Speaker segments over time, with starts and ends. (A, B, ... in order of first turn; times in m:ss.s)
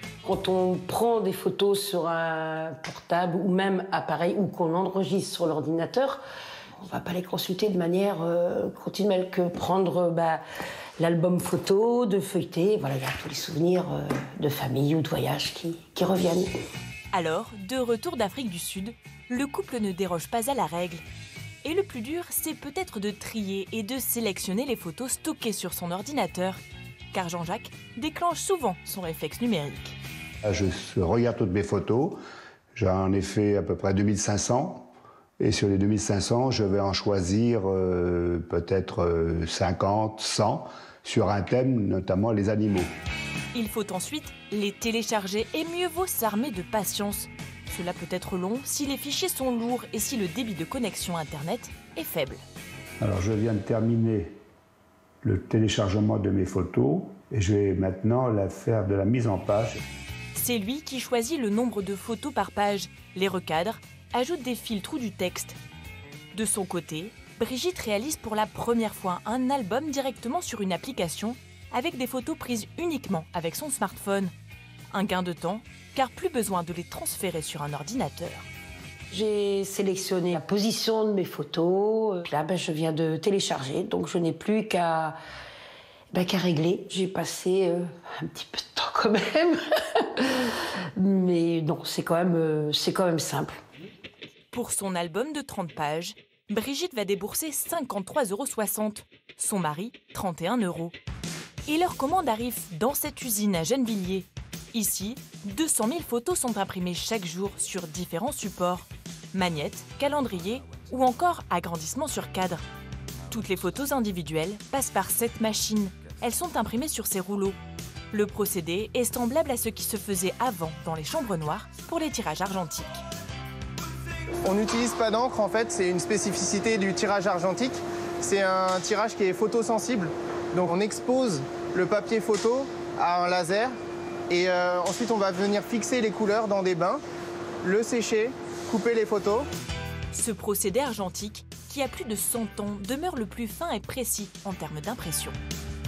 0:00.2-0:06.2 A
0:06.8-0:10.4 A
0:11.0-0:16.5 A
0:17.1-0:21.0 B
0:21.6-0:26.6 B
0:27.1-0:29.9 B
0:30.4-0:32.2 C
0:32.7-0:42.9 C
0:43.5-0:52.4 B
0:53.0-0:54.4 C
0:55.2-0:59.8 C
1:00.3-1:05.6 B
1:06.3-1:14.3 B
1:14.9-1:18.5 B
1:19.1-1:25.2 A
1:26.1-1:33.6 A
1:34.5-1:40.9 B
1:41.7-1:52.6 B
1:53.3-1:57.6 B
1:58.1-2:03.0 B
2:04.4-2:13.7 D
2:14.3-2:17.0 D
2:17.6-2:19.5 D
2:20.1-2:25.4 B